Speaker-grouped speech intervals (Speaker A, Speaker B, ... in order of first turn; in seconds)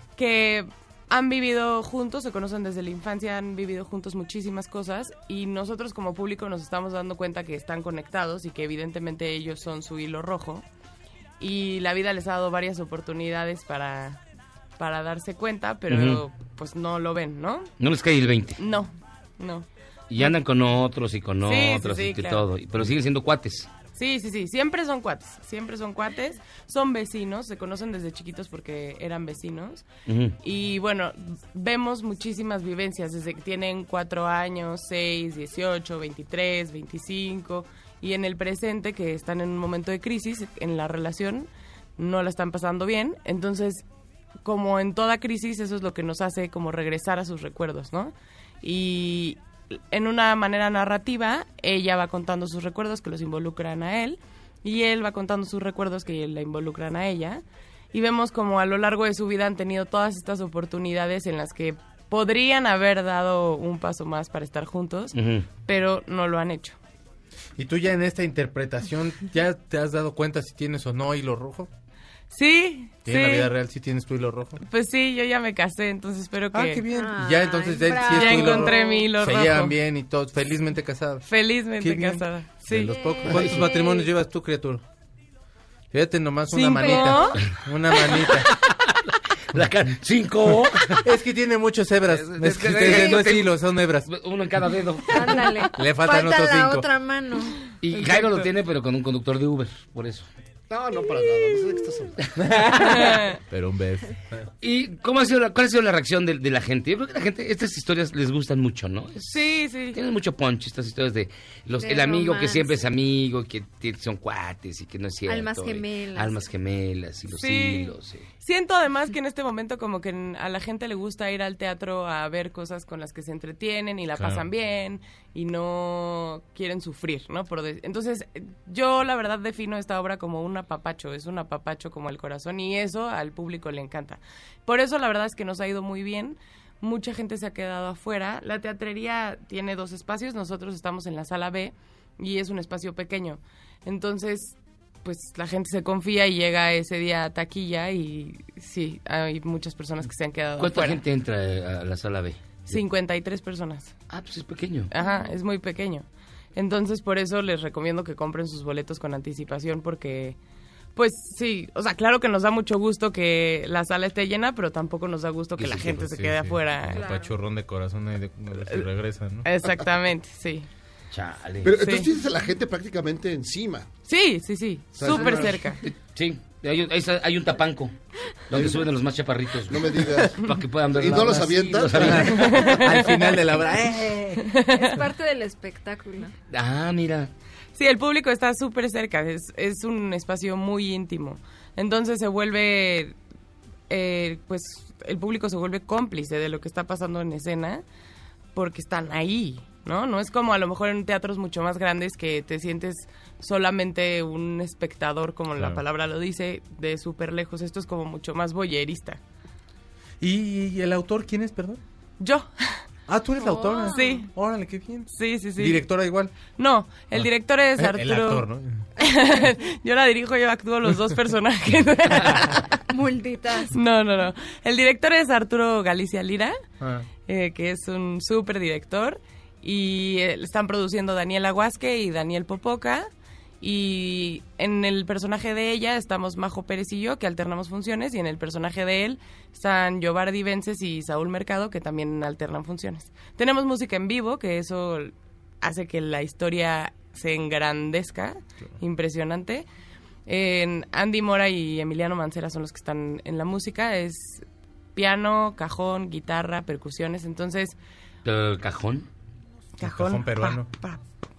Speaker A: 0.2-10.6, 11.4-14.2, 14.8-17.7, 18.6-19.7, 21.4-22.4, 23.9-29.9, 30.4-43.8, 44.4-57.4, 57.9-65.2, 65.7-66.8, 72.3-73.5, 74.6-76.8, 78.0-79.8, 81.3-82.9, 86.6-87.3, 103.0-103.4, 109.3-110.0, 117.3-151.0, 152.7-153.9, 154.9-160.4, 161.0-167.1, 169.4-170.7, 171.8-172.1, 174.1-175.8, 182.5-183.2, 184.4-184.8, 187.8-193.2, 193.9-197.8, 198.6-209.2, 212.2-212.8, 213.9-214.3, 215.1-215.8, 216.5-218.5, 219.0-222.7, 223.7-226.6, 227.3-233.1, 233.6-249.7, 250.3-254.4, 255.0-257.8, 259.8-261.0
Speaker B: 15.9-16.2, 17.8-18.6, 20.1-23.7, 30.1-30.4, 65.1-65.5, 89.5-91.0, 92.1-93.5, 94.1-95.5, 97.8-100.3, 104.6-118.3, 150.6-152.8, 154.1-154.9, 165.6-165.9, 171.1-171.7, 176.1-177.9, 178.5-182.5, 186.5-187.3, 258.2-259.1
Speaker C: 67.6-71.7, 73.0-74.6, 76.5-81.2, 81.8-84.8, 85.9-88.5, 91.0-94.1, 95.7-96.9, 102.4-104.5, 124.2-124.4, 165.8-169.5, 182.0-184.5, 205.5-205.8, 210.2-211.8, 213.1-216.3, 217.1-218.8, 226.8-227.1, 259.8-260.7
Speaker D: 76.9-79.1, 82.9-84.0, 86.5-87.4, 95.1-97.6, 111.8-112.8, 115.3-116.4, 155.0-155.3, 166.9-167.3, 184.7-186.3, 213.4-214.2, 222.9-223.7
Speaker E: 100.7-102.2, 171.6-173.9, 175.0-175.8, 178.5-178.8, 179.7-180.4, 180.9-183.0